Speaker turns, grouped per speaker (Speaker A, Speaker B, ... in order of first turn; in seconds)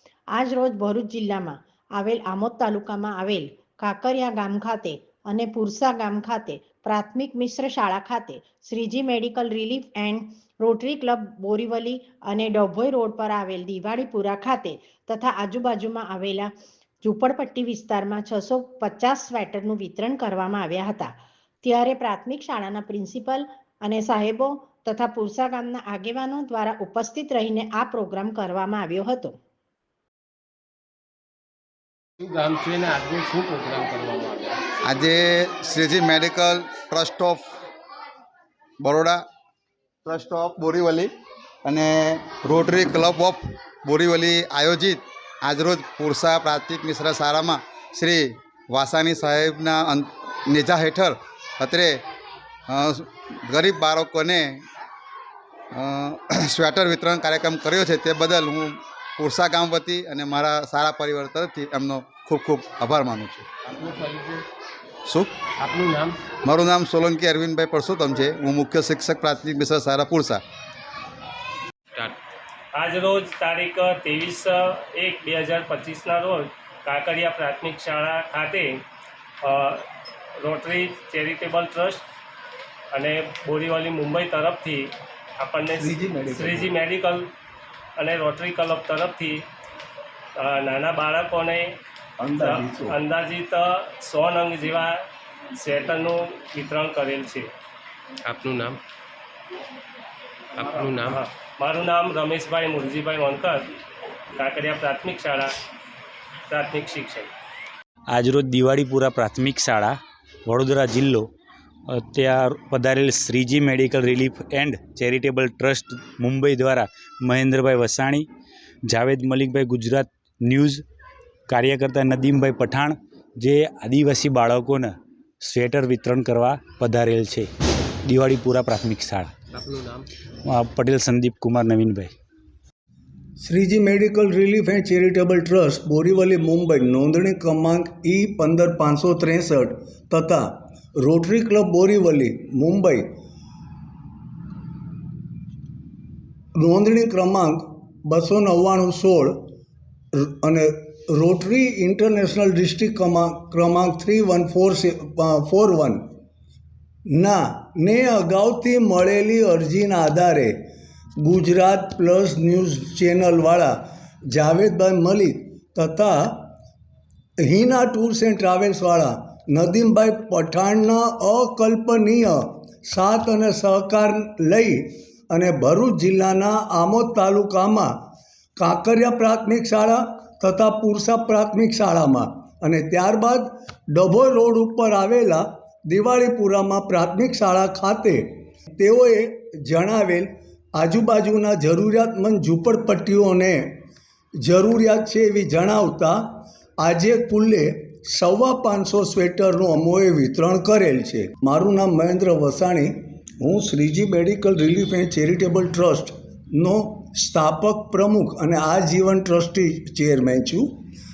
Speaker A: 0.3-29.4
Speaker B: 32.2-34.6, 63.6-64.4, 65.6-66.2, 98.2-98.8, 100.5-101.2, 129.5-130.1
Speaker C: 34.9-37.5, 38.8-39.2, 40.0-41.1, 41.6-52.0, 52.7-54.6, 55.7-63.5, 65.0-65.4, 66.4-70.4
Speaker D: 72.7-78.8, 79.4-79.8, 80.4-82.0, 82.9-87.3, 88.0-89.4, 90.4-91.8, 92.4-95.0, 95.5-97.5, 100.7-103.7, 104.4-105.5, 106.5-107.3
Speaker E: 85.7-86.7, 92.2-93.0, 133.4-143.1, 146.6-149.4, 150.1-156.1, 157.1-160.6, 161.2-163.7, 164.3-166.5, 167.4-177.9, 178.6-193.8, 194.4-210.7
Speaker F: 108.1-111.3, 111.9-118.2, 118.9-120.8, 121.5-127.5, 128.0-129.3, 130.4-132.1